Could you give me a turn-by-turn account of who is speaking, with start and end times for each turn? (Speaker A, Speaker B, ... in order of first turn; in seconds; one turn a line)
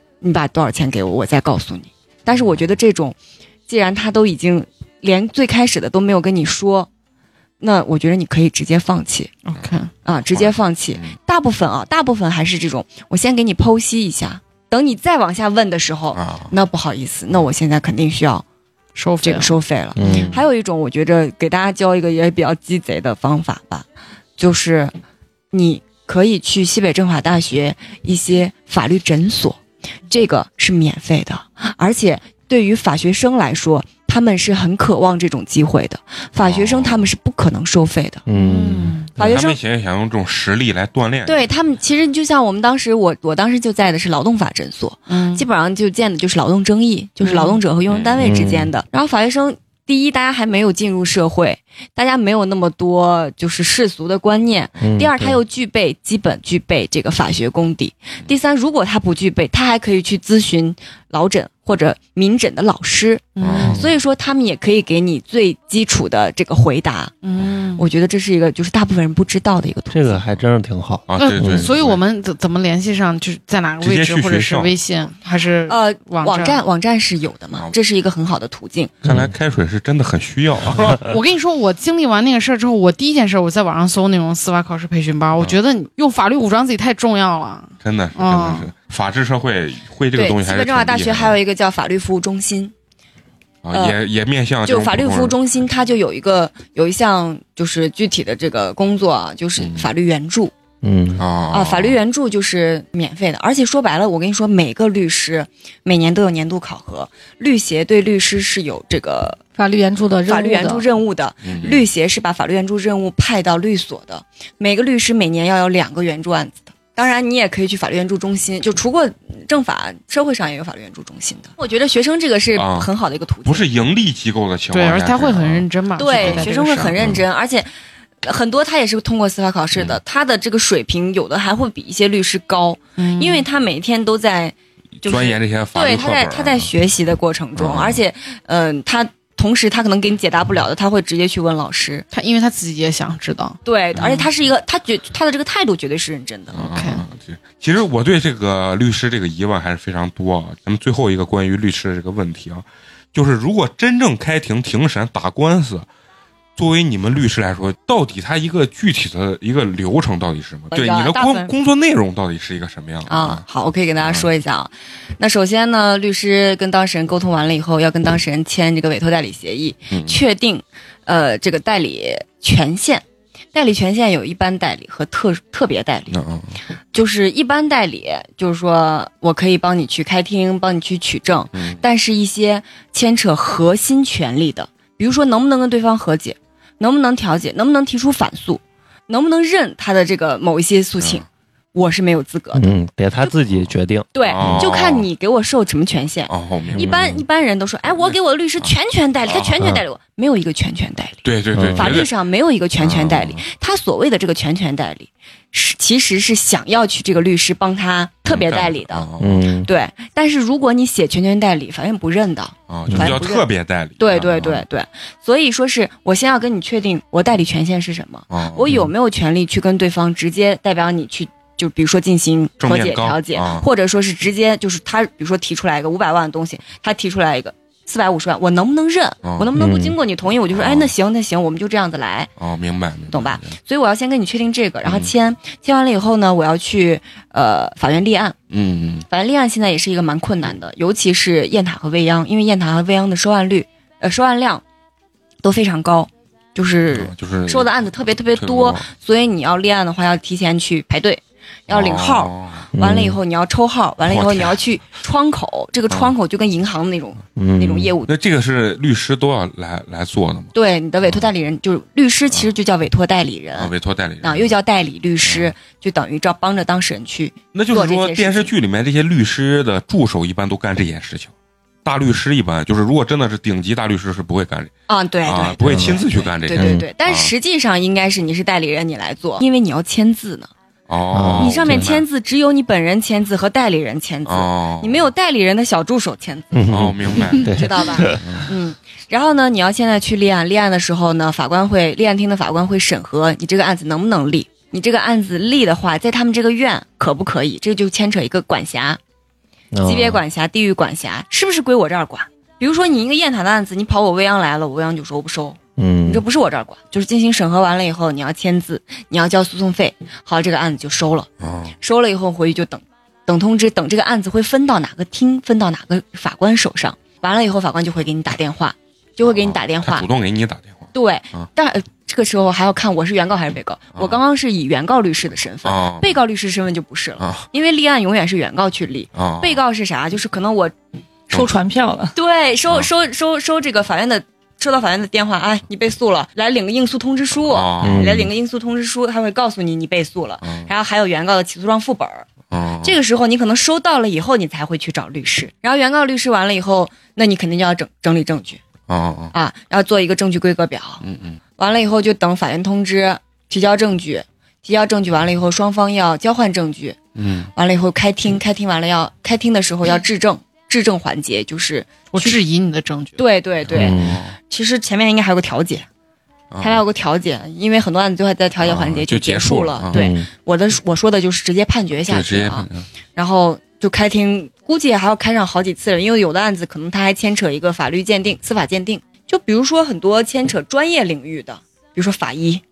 Speaker A: 0.2-3.2
Speaker A: 3.7-6.9
Speaker A: 7.6-9.3
Speaker B: 9.4-9.9
Speaker C: 9.5-9.8
Speaker A: 10.1-18.4
Speaker C: 10.3-11.2
Speaker C: 16.1-16.5
Speaker B: 19.0-19.6
Speaker A: 19.2-24.9
Speaker D: 20.0-20.4
Speaker A: 25.5-38.2
Speaker C: 36.4-37.1
Speaker D: 38.3-39.4
Speaker B: 38.4-39.1
Speaker A: 39.2-39.6
Speaker C: 39.2-41.5
Speaker A: 41.3-67.2
Speaker B: 45.1-45.5
Speaker B: 47.2-47.6
Speaker C: 47.9-48.2
Speaker D: 48.2-48.7
Speaker D: 54.8-55.4
Speaker B: 63.4-63.9
Speaker C: 63.4-63.8
Speaker B: 67.2-67.8
Speaker A: 67.8-70.2
Speaker D: 69.9-71.7
Speaker C: 71.1-72.0
Speaker B: 71.2-76.6
Speaker C: 73.8-74.8
Speaker A: 75.7-79.0
Speaker C: 79.0-81.0
Speaker D: 79.0-79.3
Speaker B: 81.0-88.7
Speaker C: 87.8-91.4
Speaker A: 90.2-92.7
Speaker C: 93.6-95.4
Speaker A: 93.7-94.0
Speaker A: 94.7-100.5
Speaker C: 99.6-99.9
Speaker D: 100.8-101.2
Speaker C: 101.2-102.0
Speaker A: 101.5-109.4
Speaker E: 109.6-110.8
Speaker A: 110.3-123.7
Speaker C: 111.4-111.9
Speaker C: 122.5-122.9
Speaker C: 123.5-127.2
Speaker B: 124.7-127.0
Speaker A: 126.0-127.7
Speaker A: 128.2-142.1
Speaker B: 133.0-133.5
Speaker C: 135.0-136.7
Speaker C: 137.6-138.0
Speaker B: 142.1-143.6
Speaker A: 143.7-146.7
Speaker C: 143.9-144.2
Speaker C: 146.5-155.9
Speaker B: 146.7-147.0
Speaker C: 156.6-163.4
Speaker A: 160.7-161.5
Speaker A: 163.1-176.2
Speaker C: 164.0-164.3
Speaker C: 169.9-170.2
Speaker C: 176.1-176.6
Speaker A: 176.9-192.7
Speaker C: 181.5-181.8
Speaker D: 192.5-194.7
Speaker A: 194.1-201.2
Speaker C: 194.2-195.1
Speaker C: 196.3-197.0
Speaker D: 196.7-197.2
Speaker C: 199.3-199.6
Speaker C: 201.2-202.1
Speaker D: 201.6-202.0
Speaker A: 201.8-209.1
Speaker C: 202.8-203.4
Speaker C: 208.3-209.4
Speaker D: 209.2-209.7
Speaker A: 209.6-213.5
Speaker C: 212.7-214.7
Speaker D: 212.9-213.2
Speaker A: 214.0-232.3
Speaker C: 218.3-218.8
Speaker C: 222.6-223.7
Speaker C: 229.2-229.5
Speaker D: 229.6-230.0
Speaker C: 230.5-230.9
Speaker C: 232.4-233.6
Speaker A: 233.1-238.4
Speaker C: 234.8-235.1
Speaker C: 238.5-239.1
Speaker A: 239.1-244.6
Speaker A: 245.4-258.1
Speaker C: 246.9-247.7
Speaker C: 248.3-248.9
Speaker C: 251.7-252.7
Speaker D: 252.7-253.2
Speaker C: 254.1-254.6
Speaker C: 255.9-256.1
Speaker D: 257.4-257.9
Speaker C: 258.1-260.5
Speaker A: 260.5-268.5
Speaker C: 263.6-264.6
Speaker C: 265.2-265.5
Speaker C: 267.5-271.3
Speaker C: 271.8-274.7
Speaker A: 274.9-280.5
Speaker C: 275.2-277.3
Speaker D: 275.6-276.0
Speaker D: 276.5-276.9
Speaker C: 280.9-282.1
Speaker D: 281.1-281.9
Speaker A: 281.4-286.7
Speaker C: 284.3-285.1
Speaker D: 286.5-288.4
Speaker C: 286.7-288.5
Speaker A: 287.4-299.0
Speaker D: 299.7-300.2
Speaker A: 299.8-311.3
Speaker D: 305.8-306.2
Speaker C: 311.4-311.7
Speaker A: 311.8-320.1
Speaker C: 319.2-321.5
Speaker A: 320.9-330.7
Speaker C: 323.9-324.2
Speaker C: 325.6-326.2
Speaker C: 327.2-327.5
Speaker C: 329.1-329.6
Speaker E: 331.3-332.1
Speaker A: 332.1-342.3
Speaker C: 337.5-338.3
Speaker D: 337.8-338.3
Speaker C: 340.4-340.7
Speaker C: 342.5-343.0
Speaker A: 342.8-348.6
Speaker C: 348.9-349.3
Speaker A: 349.3-351.0
Speaker C: 351.0-351.4
Speaker A: 351.6-357.0
Speaker C: 357.2-357.5
Speaker A: 357.6-362.4
Speaker B: 362.1-363.2
Speaker A: 363.2-365.9
Speaker C: 363.7-364.4
Speaker D: 363.7-364.2
Speaker C: 366.5-366.8
Speaker A: 366.6-382.6
Speaker C: 368.6-370.0
Speaker D: 369.9-370.3
Speaker C: 372.1-372.9